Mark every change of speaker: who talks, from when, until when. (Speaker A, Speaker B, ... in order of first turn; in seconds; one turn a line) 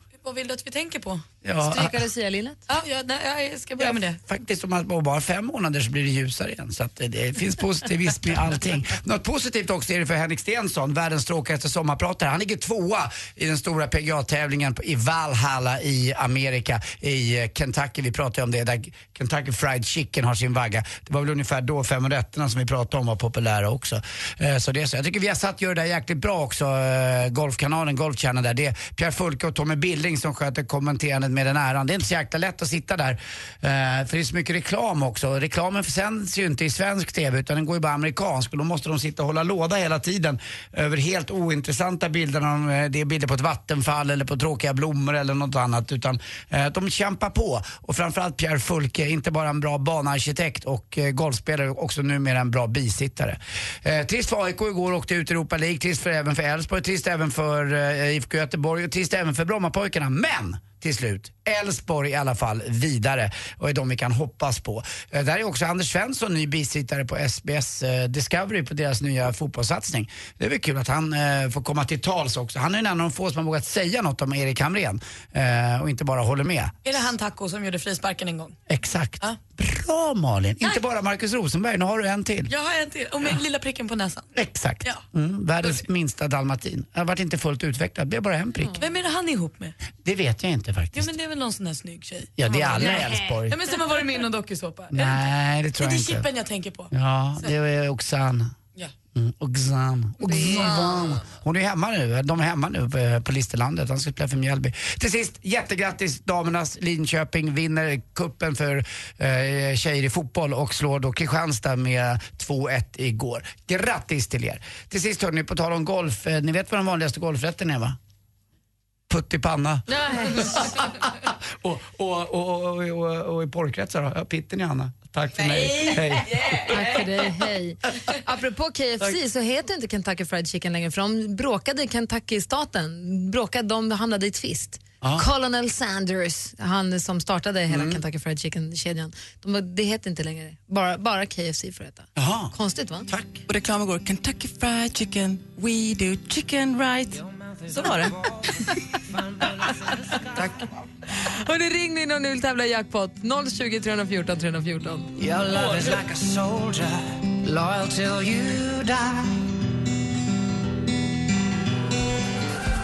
Speaker A: 0.2-1.2
Speaker B: 1.4-2.0
Speaker C: 1.6-2.6
Speaker A: 2.7-4.2
Speaker B: 3.8-76.8
Speaker A: 76.8-78.6
Speaker B: 78.7-82.5
Speaker A: 82.5-84.3
Speaker B: 84.3-88.8
Speaker A: 88.8-89.8
Speaker B: 90.0-91.1
Speaker A: 90.9-95.2
Speaker B: 92.4-93.6
Speaker B: 94.9-96.3
Speaker A: 95.8-97.5
Speaker B: 96.9-98.5
Speaker B: 99.2-118.0
Speaker C: 100.3-100.8
Speaker A: 100.4-101.1
Speaker B: 119.1-126.8
Speaker C: 119.9-120.7
Speaker C: 126.7-143.1
Speaker B: 135.0-135.3
Speaker B: 137.7-138.0
Speaker B: 142.2-142.5
Speaker B: 143.1-143.4
Speaker D: 143.5-148.2
Speaker C: 151.4-155.1
Speaker E: 155.2-159.3